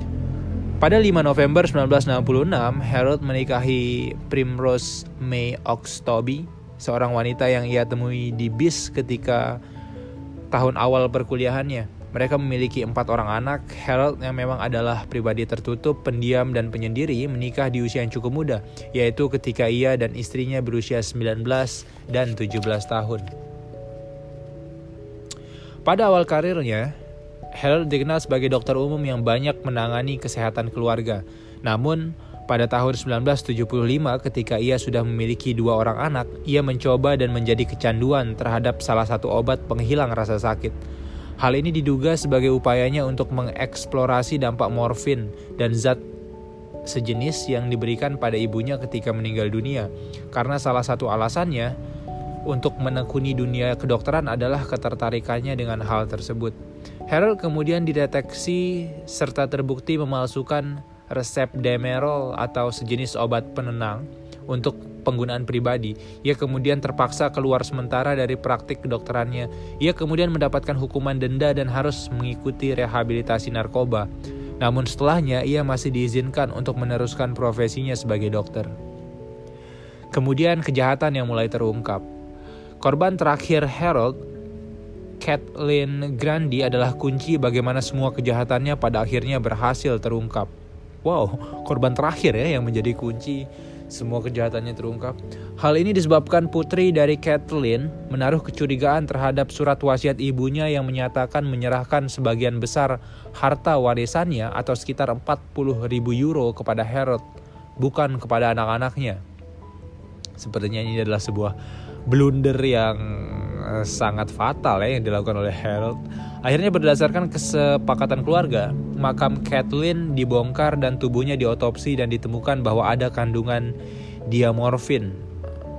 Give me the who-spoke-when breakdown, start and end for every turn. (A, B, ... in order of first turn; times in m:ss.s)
0:00.8-0:09.6 A
0:10.5-0:23.2 A
0:25.9-0:26.9 A
0:27.6-0:40.8 A
0:41.4-0:46.0 A
0:46.9-0:51.7 A
0:52.5-0:56.6 A
0:57.1-1:14.1 A
1:14.6-1:18.7 A
1:20.1-1:22.0 A
1:22.8-1:24.2 A
1:25.2-1:30.5 A
1:31.0-1:47.2 A
1:47.8-1:49.2 A
1:50.4-1:51.6 A
1:52.1-2:03.7 A
2:04.3-2:05.2 A